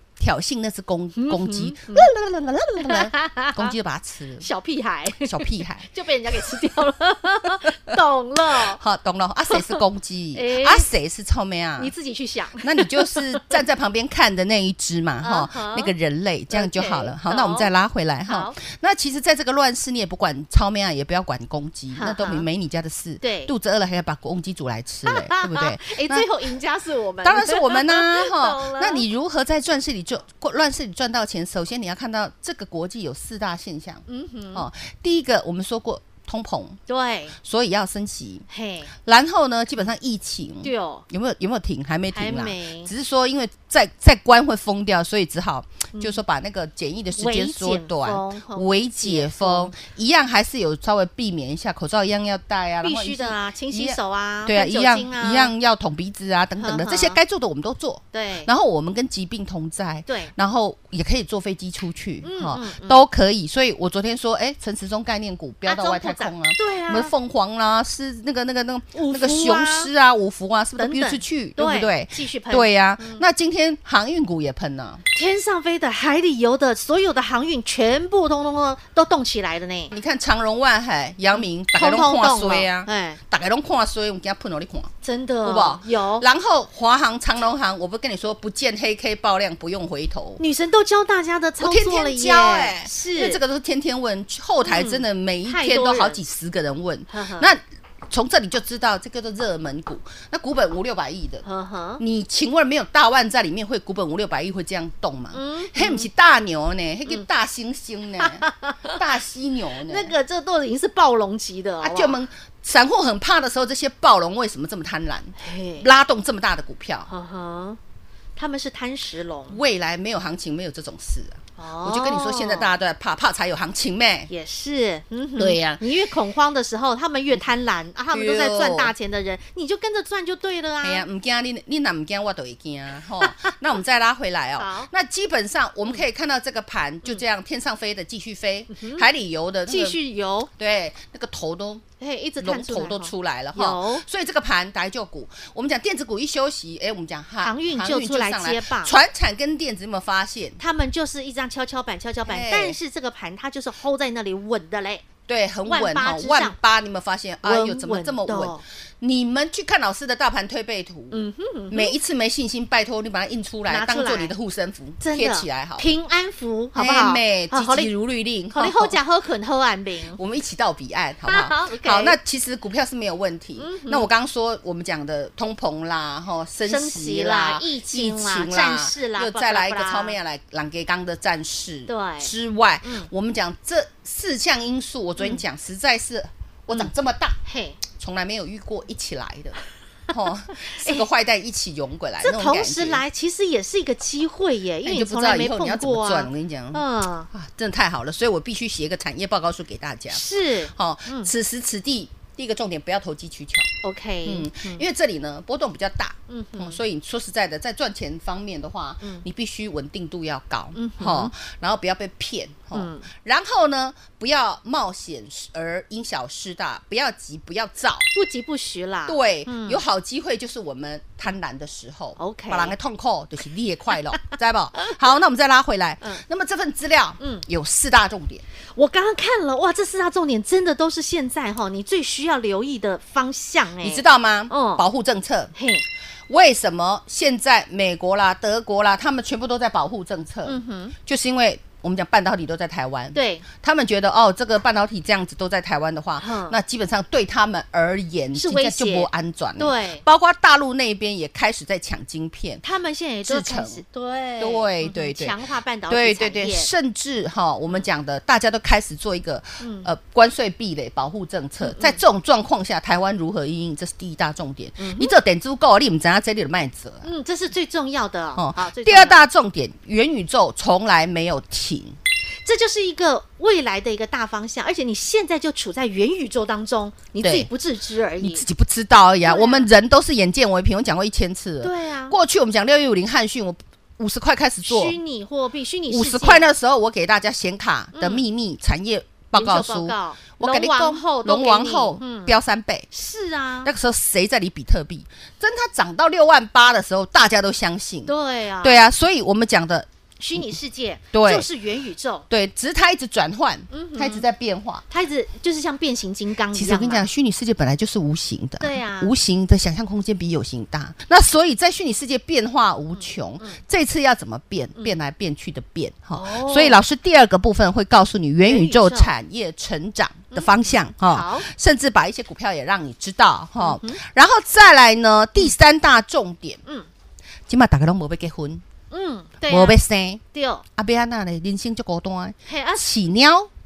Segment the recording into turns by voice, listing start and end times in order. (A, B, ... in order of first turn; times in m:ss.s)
0:00.2-0:04.5 A
0:01.2-0:02.1 B
0:02.8-0:03.7 B
0:04.4-0:08.8 B
0:05.2-0:05.9 A
0:08.5-0:11.9 A
0:09.5-0:09.8 B
0:10.4-0:10.9 B
0:11.8-0:13.6 B
0:12.6-0:26.3 A
0:15.2-0:15.9 B
0:16.5-0:17.7 B
0:18.3-0:18.6 B
0:21.9-0:22.4 B
0:23.2-0:23.5 B
0:25.1-0:29.0 B
0:27.2-0:36.8 A
0:34.1-0:34.6 B
0:36.9-0:37.4 B
0:37.4-0:38.5 A
0:38.5-0:38.9 B
0:39.0-1:15.0 A
0:40.6-0:41.0 B
0:42.1-0:42.9 B
0:45.9-0:46.2 B
0:47.2-0:49.8 B
0:52.8-0:55.5 B
0:56.6-0:57.2 B
0:58.1-0:58.5 B
1:00.1-1:00.3 B
1:02.2-1:03.0 B
1:05.6-1:07.1 B
1:08.9-1:09.9 B
1:10.8-1:13.2 B
1:15.1-1:19.9 B
1:19.9-1:24.9 A
1:21.3-1:23.2 B
1:25.0-1:26.2 B
1:25.4-1:30.4 A
1:30.4-1:33.4 B
1:31.6-1:41.4 A
1:34.6-1:36.2 B
1:37.1-1:37.5 B
1:41.4-1:42.0 B
1:42.0-1:50.1 A
1:45.3-1:46.1 B
1:48.2-1:49.0 B
1:49.8-1:52.2 B
1:51.8-1:57.1 A
1:55.4-1:55.9 B
1:57.1-1:57.8 B
1:58.4-1:59.6 B
1:59.5-2:04.3 A
2:01.6-2:02.7 B
2:04.3-2:11.0 B
2:05.4-2:05.8 A
2:08.1-2:08.9 A
2:10.8-2:20.0 A
2:13.2-2:13.5 B
2:14.6-2:14.9 B
2:18.7-2:19.1 B
2:19.7-2:20.5 B
2:20.6-2:21.8 A
2:22.0-2:24.0 B
2:22.4-2:30.6 A
2:27.4-2:29.0 B
2:30.6-2:35.0 B
2:32.3-2:32.8 A
2:35.3-2:45.9 A
2:35.7-2:36.6 B
2:37.4-2:38.6 B
2:41.1-2:41.9 B
2:43.7-2:44.3 B
2:45.0-2:47.9 B
2:46.8-2:49.0 A
2:48.5-2:50.2 B
2:50.2-3:07.4 A
2:51.3-2:52.2 B
2:53.6-2:54.1 B
2:56.7-3:00.2 B
3:01.9-3:02.3 B
3:07.4-3:07.8 B
3:07.9-3:09.6 A
3:10.1-3:13.0 A
3:10.7-3:11.0 B
3:12.2-3:17.3 B
3:14.8-3:23.7 A
3:20.1-3:21.3 B
3:23.8-3:24.8 B
3:24.2-3:38.1 A
3:26.3-3:26.8 B
3:30.8-3:31.3 B
3:32.7-3:33.1 B
3:38.1-3:39.8 B
3:39.1-3:48.4 A
3:42.2-3:42.8 B
3:47.2-3:47.4 B
3:48.8-3:54.8 B
3:53.8-3:55.5 A
3:55.6-3:55.8 B
3:56.3-4:12.6 A
4:00.5-4:01.0 B
4:03.1-4:03.5 B
4:06.2-4:06.6 B
4:08.4-4:10.0 B
4:12.6-4:16.7 B
4:13.2-4:13.8 A
4:14.4-4:15.4 A
4:15.9-4:27.1 A
4:19.6-4:19.9 B
4:21.6-4:22.0 B
4:24.8-4:25.1 B
4:27.0-4:29.2 B
4:28.4-4:32.0 A
4:32.4-4:38.4 B
4:37.2-4:37.5 A
4:38.2-4:45.0 A
4:39.2-4:39.7 B
4:41.6-4:42.2 B
4:44.7-4:46.5 B
4:45.9-4:52.9 A
4:47.9-4:48.2 B
4:49.3-4:52.4 B
4:52.9-4:53.7 B
4:53.6-5:00.5 A
4:58.1-4:58.8 B
5:00.2-5:02.3 B
5:01.1-5:01.5 A
5:02.3-5:04.8 A
5:03.7-5:04.3 B
5:04.9-5:07.1 B
5:06.5-5:26.6 A
5:08.6-5:09.1 B
5:13.0-5:13.6 B
5:16.1-5:16.8 B
5:18.4-5:19.1 B
5:20.3-5:21.5 B
5:23.6-5:24.0 B
5:27.5-5:28.6 A
5:28.9-5:29.8 B
5:29.5-5:30.2 A
5:30.3-5:30.6 B
5:30.8-5:33.5 A
5:32.5-5:32.9 B